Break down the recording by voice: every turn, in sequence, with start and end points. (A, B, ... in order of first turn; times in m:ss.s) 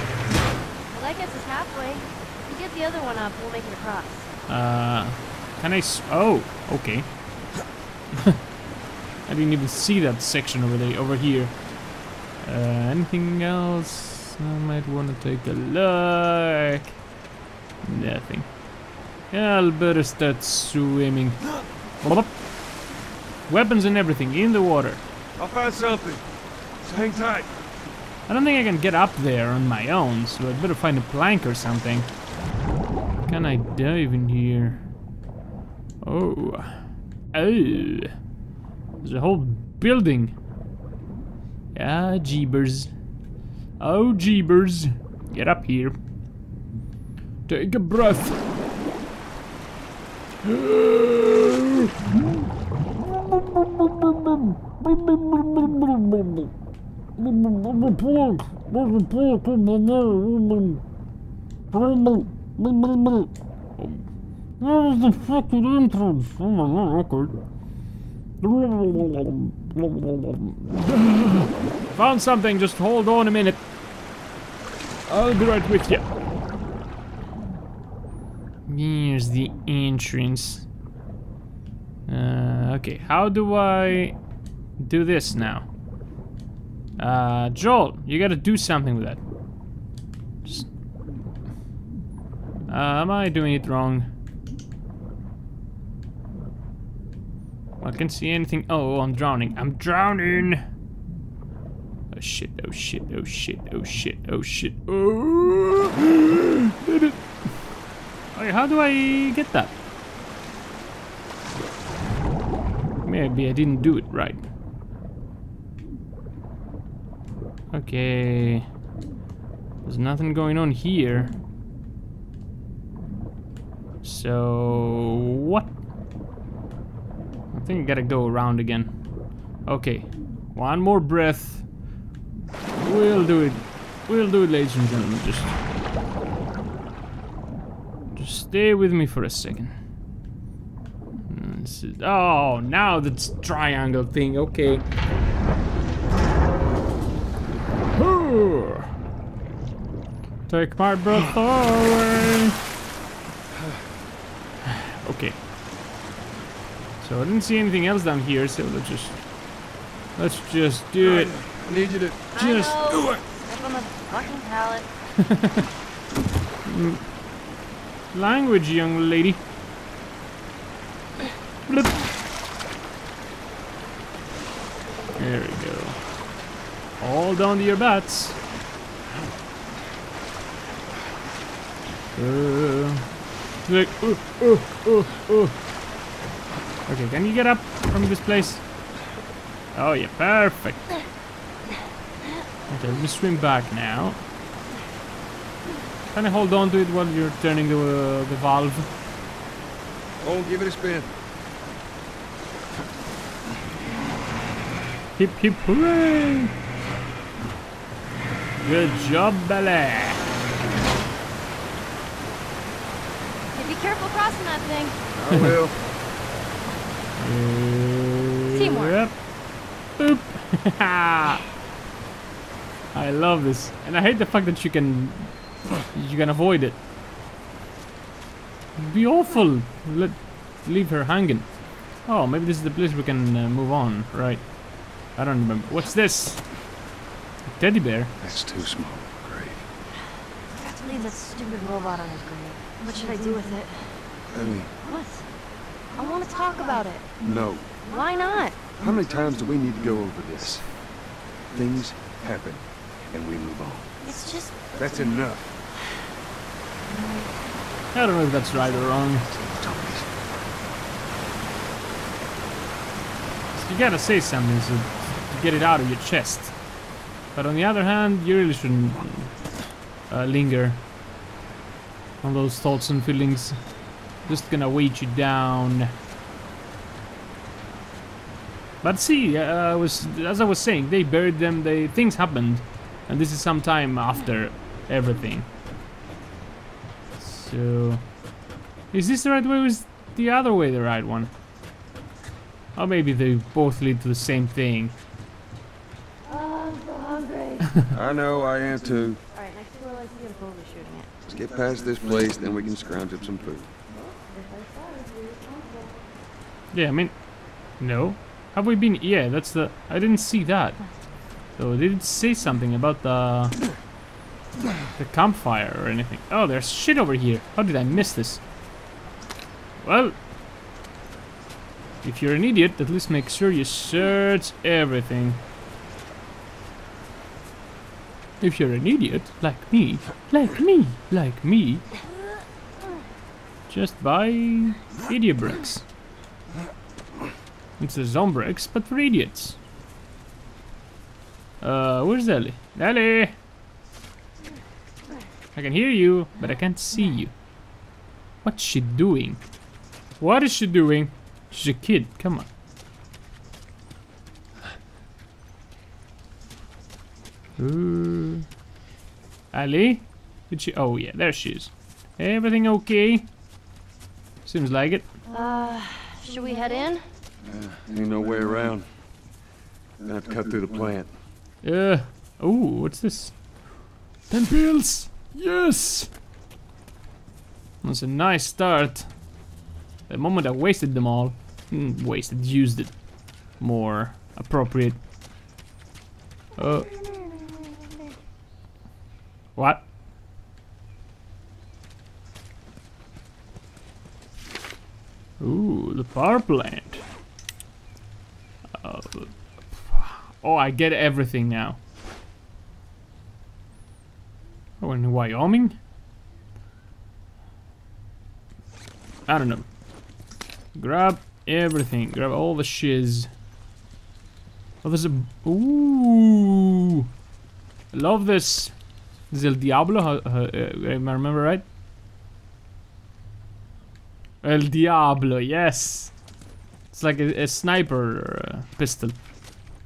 0:00.9-0:04.3 A
0:04.5-0:07.3 B
0:09.3-0:17.0 B
0:17.8-0:22.6 B
0:23.5-0:25.0 B
0:25.4-0:26.2 C
0:26.8-0:27.5 C
0:28.3-0:32.1 B
0:33.3-0:34.8 B
0:36.0-0:38.1 B
0:39.0-0:40.3 B
0:41.7-0:42.9 B
0:43.8-0:46.0 B
0:47.5-0:48.5 B
0:50.4-0:51.9 B
0:53.0-0:56.5 B
0:57.2-1:00.8 B
1:01.7-1:04.0 B
1:04.6-1:07.4 B
1:08.4-1:13.6 B
1:15.1-1:16.1 B
1:18.7-1:20.7 B
1:22.1-1:24.2 B
1:24.8-1:25.7 B
1:27.0-1:29.2 B
1:32.7-1:34.1 B
1:37.8-1:40.6 B
1:42.1-1:47.2 B
1:48.3-1:49.7 B
1:53.0-1:54.4 B
1:57.7-1:58.7 B
1:59.8-2:01.3 B
2:04.0-2:05.7 B
2:07.5-2:11.7 B
2:12.8-2:15.5 B
2:18.2-2:19.8 B
2:21.3-2:24.8 B
2:27.9-2:28.9 B
2:30.5-2:32.6 B
2:35.0-2:35.4 B
2:37.0-2:39.2 B
2:40.2-2:41.4 B
2:41.0-2:42.2 C
2:42.4-2:44.9 A
2:42.4-2:42.8 B
2:46.7-2:47.1 B
2:48.1-2:49.4 B
2:51.7-2:52.0 B
2:55.2-2:56.1 B
2:57.0-2:58.4 B
3:02.2-3:05.6 B
3:06.9-3:08.6 B
3:09.7-3:10.9 B
3:12.7-3:14.2 B
3:16.1-3:18.9 B
3:20.2-3:21.1 C
3:25.2-3:26.5 B
3:28.6-3:30.2 B
3:33.5-3:35.0 A
3:35.2-3:35.8 C
3:37.2-3:39.2 B
3:38.5-3:39.1 A
3:39.8-3:41.4 B
3:42.9-3:46.8 B
3:48.8-3:56.7 B
3:57.5-3:58.1 B
3:58.2-3:59.6 C
4:00.6-4:04.2 A
4:04.3-4:04.7 C
4:04.8-4:05.3 A
4:06.0-4:07.1 A
4:07.2-4:07.7 C
4:07.8-4:08.6 A
4:08.8-4:10.7 C
4:11.5-4:13.9 C
4:14.0-4:14.6 A
4:14.7-4:15.5 C
4:17.9-4:19.3 B
4:19.3-4:20.1 C
4:23.5-4:26.6 B
4:27.3-4:29.5 B
4:30.1-4:30.8 B
4:32.2-4:35.9 B
4:38.8-4:45.5 B
4:47.2-4:48.2 B
4:48.9-4:51.3 B
4:52.8-4:54.9 B
4:56.3-4:57.7 A
4:57.9-4:59.2 C
4:59.3-5:01.1 A
5:01.3-5:03.7 C
5:04.0-5:05.7 A
5:06.7-5:10.9 B
5:11.6-5:13.6 B
5:15.0-5:18.4 B
5:19.8-5:20.2 B
5:22.0-5:25.4 B
5:28.4-5:31.8 B
5:33.7-5:35.9 B
5:37.8-5:39.6 B
5:41.6-5:43.4 B
5:45.6-5:47.3 B
5:48.4-5:49.4 B
5:50.2-5:52.5 B
5:57.6-5:58.5 B
5:59.5-6:03.3 B
6:04.4-6:05.1 B
6:05.3-6:07.0 A
6:07.5-6:08.9 C
6:10.0-6:11.1 C
6:11.6-6:16.1 B
6:17.8-6:19.3 B
6:20.1-6:25.0 B
6:26.6-6:26.9 B
6:29.6-6:29.8 B
6:35.4-6:37.0 B
6:38.7-6:41.8 B
6:44.8-6:45.8 B
6:49.3-6:49.7 B
6:50.7-6:53.3 B
6:54.8-6:57.0 B
6:57.9-7:01.6 B
7:04.4-7:06.2 B
7:06.9-7:09.2 B